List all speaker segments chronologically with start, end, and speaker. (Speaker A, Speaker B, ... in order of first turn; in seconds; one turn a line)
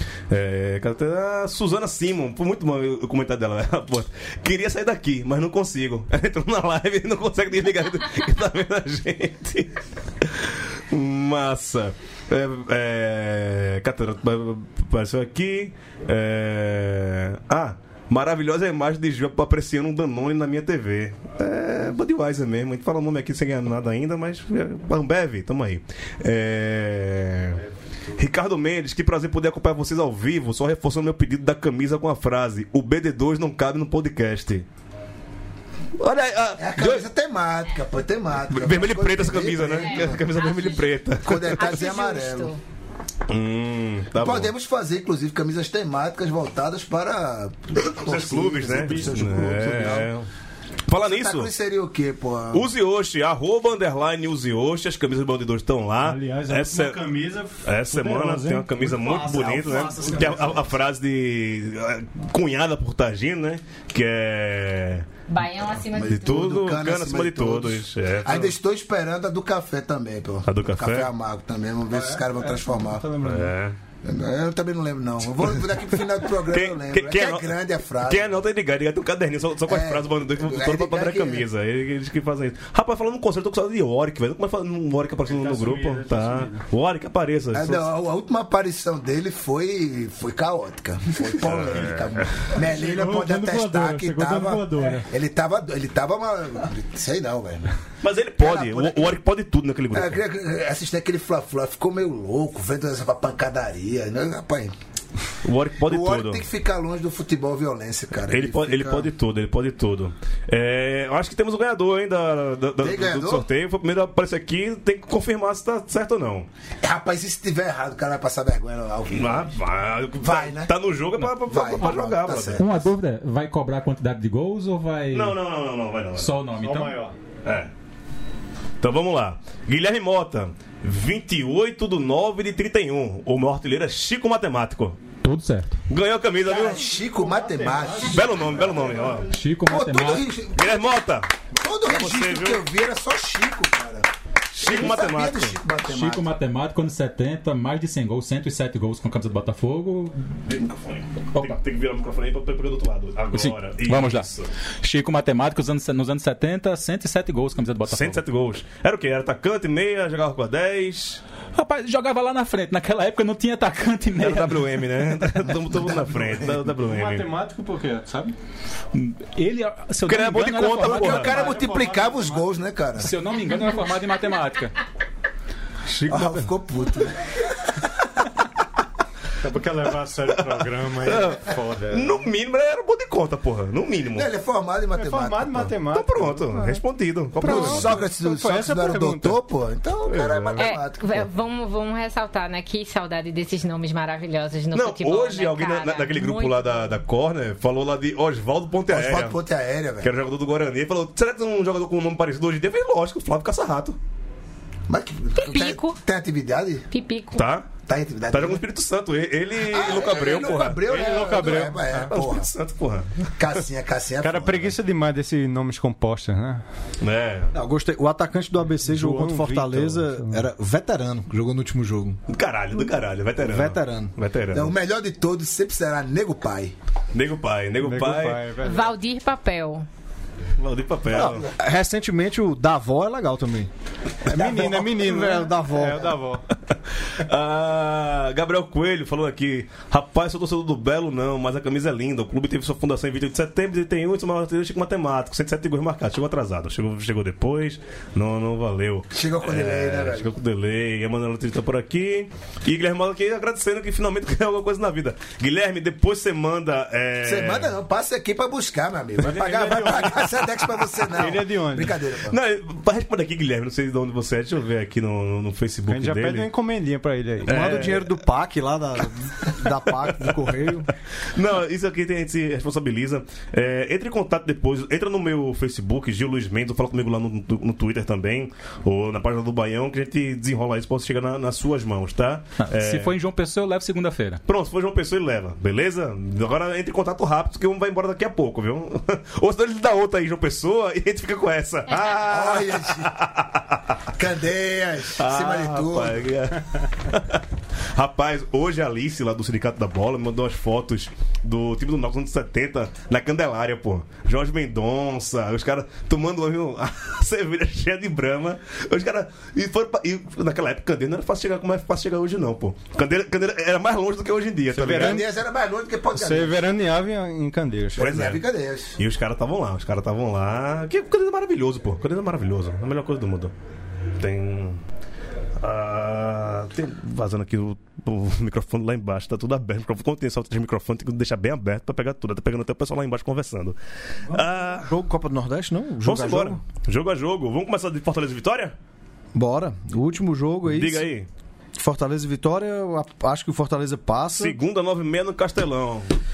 Speaker A: 0.3-27.6
Speaker A: 28.2-34.7
Speaker A: 36.0-37.0
Speaker B: 36.6-40.2
Speaker A: 38.5-41.8
Speaker C: 39.8-42.6
Speaker B: 41.2-42.5
Speaker A: 43.3-44.5
Speaker B: 44.2-50.1
Speaker A: 47.9-50.3
Speaker D: 48.7-50.0
Speaker A: 50.9-51.5
Speaker B: 51.0-52.7
Speaker A: 52.5-57.0
Speaker D: 56.0-60.6
Speaker A: 57.6-65.1
Speaker E: 59.0-60.7
Speaker C: 65.3-66.5
Speaker B: 66.0-73.1
Speaker A: 66.0-68.5
Speaker A: 70.5-71.1
Speaker D: 71.9-73.5
Speaker A: 73.2-73.8
Speaker B: 74.0-78.4
Speaker A: 76.4-87.9
Speaker B: 79.7-81.5
Speaker D: 85.2-86.7
Speaker B: 87.5-97.7
Speaker A: 91.4-92.5
Speaker D: 92.6-95.1
Speaker A: 98.0-100.2
Speaker B: 98.4-99.2
Speaker B: 99.9-104.7
Speaker A: 105.4-106.5
Speaker B: 105.8-109.1
Speaker A: 108.3-116.5
Speaker B: 112.8-113.5
Speaker B: 116.8-119.5
Speaker A: 119.1-122.7
Speaker B: 120.2-120.8
Speaker B: 121.4-122.8
Speaker F: 122.6-125.4
Speaker A: 125.1-126.3
Speaker F: 126.2-127.0
Speaker D: 126.6-127.2
Speaker A: 127.5-127.7
Speaker A: 128.8-135.0
Speaker F: 135.2-135.8
Speaker A: 135.9-136.8
Speaker D: 136.5-139.2
Speaker B: 136.5-138.5
Speaker A: 138.1-139.3
Speaker F: 139.3-140.3
Speaker B: 139.7-141.0
Speaker A: 140.6-141.3
Speaker B: 141.6-144.1
Speaker A: 141.8-142.7
Speaker A: 144.5-145.6
Speaker B: 144.6-146.3
Speaker F: 145.8-150.4
Speaker A: 150.5-154.5
Speaker F: 153.3-154.3
Speaker F: 154.8-158.2
Speaker A: 157.8-161.2
Speaker F: 161.6-164.9
Speaker A: 164.2-167.3
Speaker B: 165.7-166.5
Speaker D: 166.7-168.3
Speaker F: 168.9-171.5
Speaker A: 170.1-171.5
Speaker B: 170.9-173.1
Speaker D: 171.2-172.5
Speaker F: 173.0-174.8
Speaker A: 175.9-176.5
Speaker B: 176.1-177.6
Speaker D: 179.4-182.3
Speaker A: 180.3-184.3
Speaker B: 184.1-185.8
Speaker D: 184.9-186.8
Speaker A: 185.9-188.0
Speaker D: 187.4-189.4
Speaker B: 187.4-191.3
Speaker A: 190.1-190.7
Speaker C: 190.6-197.0
Speaker A: 194.7-199.4
Speaker B: 198.9-200.1
Speaker A: 200.0-204.0
Speaker B: 204.9-206.9
Speaker C: 205.4-206.0
Speaker C: 206.9-207.5
Speaker A: 207.3-207.7
Speaker B: 207.8-208.6
Speaker A: 208.3-210.8
Speaker B: 209.6-212.5
Speaker D: 210.9-212.1
Speaker A: 212.1-213.3
Speaker B: 213.4-214.8
Speaker D: 214.2-216.6
Speaker A: 217.0-217.5
Speaker E: 217.5-222.2
Speaker D: 218.8-220.4
Speaker A: 222.3-224.8
Speaker E: 223.4-224.1
Speaker B: 224.5-226.7
Speaker A: 227.1-228.4
Speaker D: 227.8-228.9
Speaker C: 228.6-229.9
Speaker A: 230.6-231.5
Speaker E: 231.1-233.7
Speaker D: 234.3-236.4
Speaker E: 234.4-236.1
Speaker B: 234.4-234.7
Speaker A: 236.7-257.7
Speaker B: 249.1-250.3
Speaker B: 257.2-262.4
Speaker D: 259.2-260.4
Speaker D: 261.1-262.0
Speaker A: 262.3-266.5
Speaker D: 265.9-267.7
Speaker A: 267.4-268.1
Speaker E: 267.5-270.9
Speaker A: 271.3-283.1
Speaker F: 282.6-284.4
Speaker A: 284.5-293.9
Speaker B: 292.2-293.1
Speaker B: 294.1-296.3
Speaker A: 295.2-297.4
Speaker A: 297.9-315.2
Speaker D: 314.7-315.3
Speaker B: 314.9-316.6
Speaker D: 316.1-318.1
Speaker B: 318.0-319.0
Speaker A: 318.0-318.4
Speaker A: 319.0-323.5
Speaker A: 324.2-324.8
Speaker A: 325.6-333.8
Speaker A: 334.3-334.9
Speaker E: 334.3-336.6
Speaker A: 336.1-338.7
Speaker E: 339.3-341.1
Speaker A: 340.7-341.3
Speaker E: 341.8-344.6
Speaker A: 344.4-346.1